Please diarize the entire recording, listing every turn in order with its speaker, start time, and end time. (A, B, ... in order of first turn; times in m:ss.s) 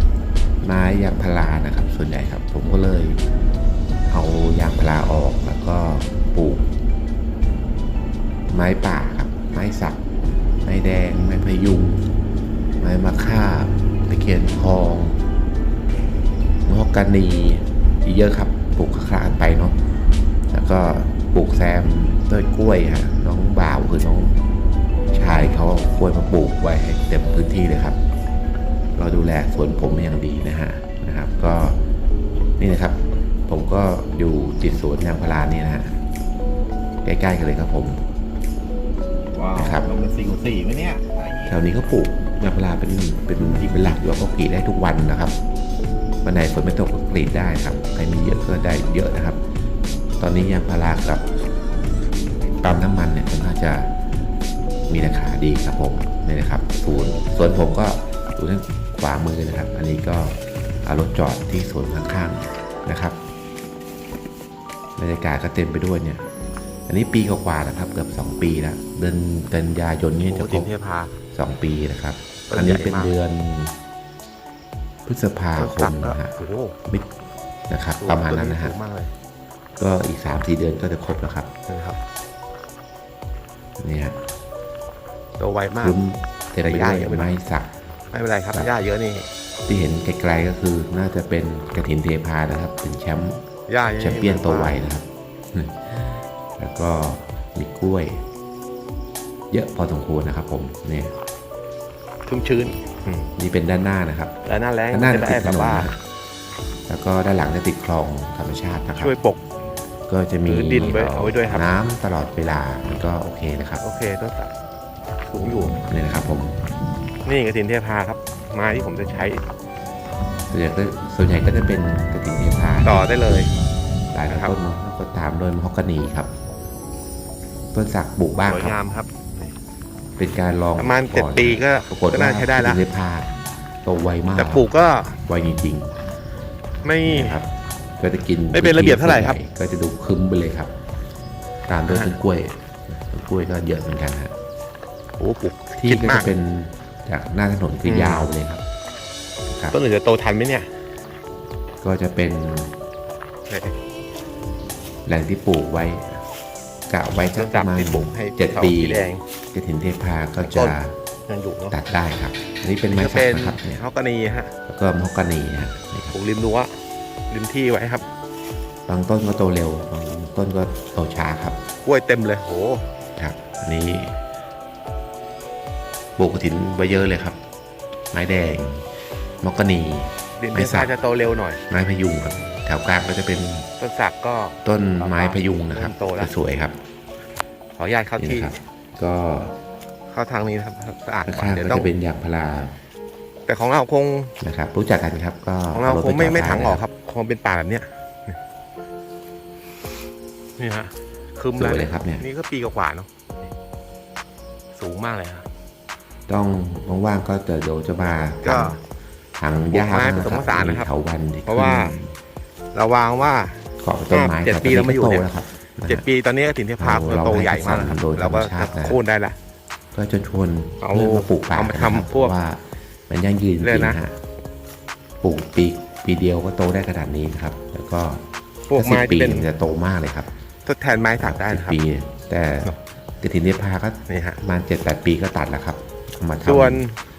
0:00.6-0:03.2 A
0:04.1-0:06.7 A
0:08.5-0:10.0 A
0:10.6-0:12.0 A
0:12.8-0:15.2 A
0:16.6-0:19.8 A
0:20.5-0:24.4 A
0:25.1-0:28.0 A
0:29.0-0:31.8 A
0:32.6-0:36.0 A
0:37.0-0:38.0 A
0:39.3-0:41.5 B
0:39.6-0:39.9 A
0:41.5-0:45.4 A
0:46.2-0:49.4 A
0:50.2-0:51.2 A
0:52.6-0:53.9 A
0:54.9-1:03.2 A
1:05.0-1:06.2 A
1:06.9-1:10.7 A
1:10.2-1:11.2 B
1:11.3-1:13.7 A
1:12.5-1:13.1 B
1:15.0-1:17.1 A
1:15.6-1:16.8 B
1:17.7-1:18.7 A
1:18.0-1:19.1 B
1:19.8-1:21.5 A
1:21.7-1:22.0 B
1:23.8-1:24.2 A
1:25.4-1:26.0 B
1:25.8-1:27.7 A
1:26.6-1:27.3 B
1:28.1-1:29.3 B
1:29.7-1:33.4 A
1:33.7-1:34.8 B
1:34.0-1:38.2 A
1:39.5-1:41.1 A
1:42.2-1:43.3 B
1:43.4-1:44.3 A
1:44.4-1:45.9 B
1:44.9-1:46.0 A
1:46.9-1:49.1 A
1:49.0-1:49.4 B
1:50.1-1:53.8 A
1:50.4-1:51.6 B
1:53.8-1:54.5 B
1:55.2-1:55.8 B
1:55.7-1:56.6 A
1:57.2-1:59.4 B
2:00.5-2:03.0 A
2:02.8-2:03.5 B
2:04.1-2:06.3 A
2:04.3-2:04.5 B
2:07.7-2:08.8 A
2:08.4-2:09.5 B
2:10.2-2:13.3 A
2:10.8-2:12.8 B
2:13.8-2:14.6 A
2:14.4-2:15.2 B
2:15.2-2:16.0 A
2:16.8-2:17.4 B
2:17.0-2:20.7 A
2:18.5-2:19.4 B
2:21.7-2:24.3 A
2:21.8-2:22.1 B
2:25.2-2:26.3 B
2:25.8-2:28.6 A
2:27.8-2:28.3 B
2:29.7-2:30.7 B
2:31.8-2:32.7 A
2:33.5-2:33.8 B
2:35.0-2:36.2 A
2:36.9-2:40.9 A
2:37.2-2:39.2 B
2:40.4-2:40.8 B
2:41.3-2:41.8 B
2:41.7-2:43.8 A
2:42.9-2:44.5 B
2:44.7-2:46.1 A
2:46.1-2:46.8 B
2:47.3-2:48.0 B
2:48.9-2:51.6 A
2:51.8-2:52.8 B
2:53.2-2:54.2 A
2:56.2-2:57.4 A
2:58.1-2:58.8 A
2:59.4-3:00.9 A
3:00.4-3:01.6 B
3:01.7-3:03.7 A
3:03.8-3:06.3 B
3:04.6-3:06.8 A
3:07.7-3:08.6 B
3:08.2-3:09.5 A
3:10.1-3:11.9 B
3:11.3-3:12.8 A
3:13.4-3:14.4 B
3:14.4-3:16.8 A
3:15.7-3:18.4 B
3:20.6-3:23.1 B
3:21.6-3:22.2 A
3:24.7-3:25.5 B
3:26.3-3:28.8 A
3:28.4-3:28.7 B
3:29.4-3:32.1 A
3:29.7-3:30.9 B
3:31.4-3:32.0 B
3:32.7-3:35.3 B
3:33.8-3:36.0 A
3:35.9-3:39.4 B
3:36.8-3:39.0 A
3:39.9-3:44.2 A
3:40.8-3:42.3 B
3:43.6-3:44.0 B
3:45.2-3:48.2 A
3:48.7-3:49.5 B
3:48.7-3:50.3 A
3:50.6-3:51.8 B
3:51.2-3:56.8 A
3:54.1-3:54.4 B
3:56.4-3:57.0 B